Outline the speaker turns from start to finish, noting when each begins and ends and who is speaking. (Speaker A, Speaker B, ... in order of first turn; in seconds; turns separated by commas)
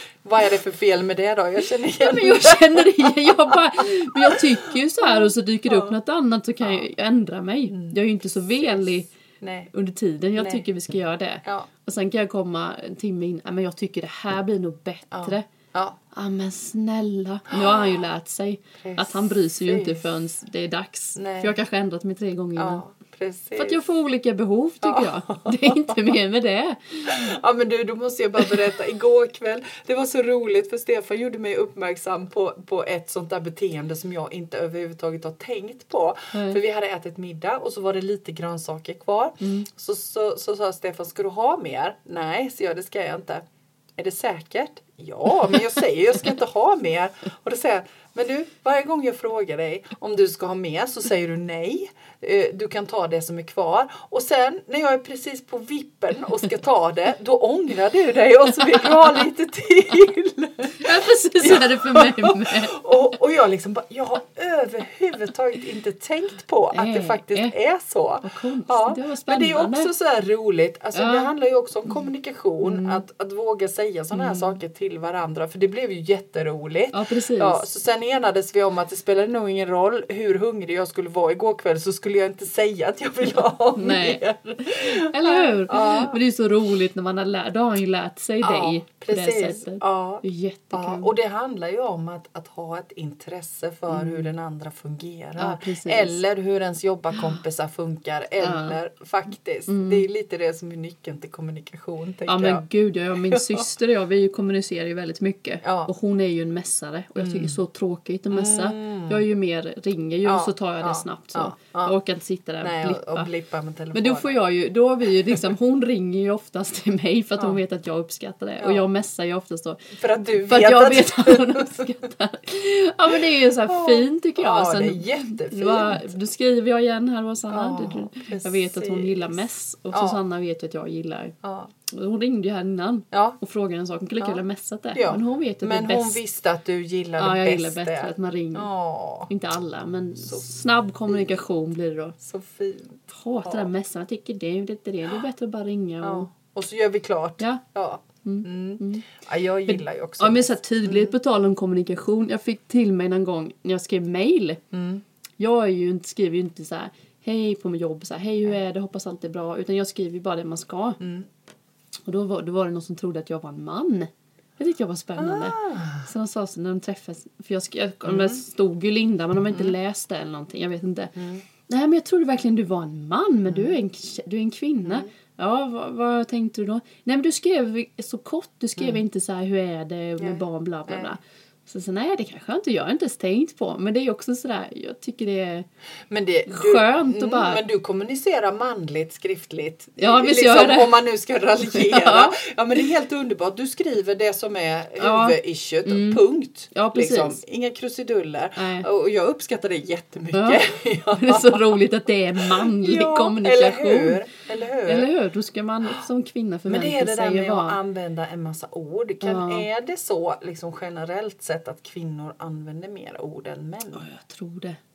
Speaker A: 0.2-6.0, Speaker B: 1.9-9.2, Speaker A: 6.6-6.9, Speaker A: 7.7-9.7, Speaker B: 9.7-15.5, Speaker A: 10.4-10.7, Speaker A: 15.1-16.0, Speaker B: 16.1-22.9, Speaker A: 17.5-18.0, Speaker A: 18.8-20.1, Speaker A: 21.2-21.6, Speaker A: 22.6-23.9, Speaker B: 23.6-27.3, Speaker A: 24.8-26.2, Speaker A: 27.0-43.4, Speaker B: 36.3-36.6, Speaker B: 39.4-39.7, Speaker A: 44.0-86.2, Speaker B: 60.8-63.0, Speaker B: 66.7-67.5, Speaker B: 68.2-69.9, Speaker B: 70.9-71.3, Speaker B: 72.6-73.0, Speaker B: 74.1-74.6, Speaker B: 76.9-77.6, Speaker B: 83.8-91.1, Speaker A: 88.4-102.7, Speaker B: 93.9-94.3, Speaker B: 95.4-96.2, Speaker B: 97.1-97.4, Speaker B: 98.4-98.8, Speaker B: 99.7-100.1, Speaker B: 102.3-113.3, Speaker A: 103.2-103.7, Speaker A: 105.6-105.9, Speaker A: 107.2-107.6, Speaker A: 108.3-109.2, Speaker A: 110.2-112.0, Speaker A: 112.6-114.4, Speaker B: 113.9-131.4, Speaker A: 118.6-118.9, Speaker A: 120.0-122.1, Speaker A: 123.1-126.2, Speaker A: 127.5-129.4, Speaker A: 129.9-130.2, Speaker A: 131.4-131.7, Speaker B: 131.9-136.2, Speaker A: 133.1-133.4, Speaker A: 134.9-139.3, Speaker B: 137.2-138.7, Speaker B: 139.3-142.2, Speaker A: 140.2-140.5, Speaker A: 142.2-143.7, Speaker B: 143.1-146.3, Speaker A: 146.0-151.1, Speaker B: 148.2-149.1, Speaker B: 149.7-154.6, Speaker A: 154.7-155.0, Speaker B: 155.4-161.0, Speaker A: 161.0-161.3, Speaker B: 162.1-171.2, Speaker A: 165.2-166.1, Speaker A: 168.1-168.4, Speaker A: 169.5-169.8, Speaker A: 171.2-171.4, Speaker B: 171.7-185.7, Speaker A: 173.5-173.8, Speaker A: 180.2-181.2, Speaker A: 186.1-201.8, Speaker B: 186.5-187.6, Speaker B: 190.0-191.0, Speaker B: 191.7-192.4, Speaker B: 195.0-197.4, Speaker B: 198.6-198.9, Speaker B: 200.3-204.2, Speaker A: 202.4-205.1, Speaker B: 204.9-207.8, Speaker A: 206.7-214.0, Speaker B: 209.2-209.7, Speaker B: 213.9-214.8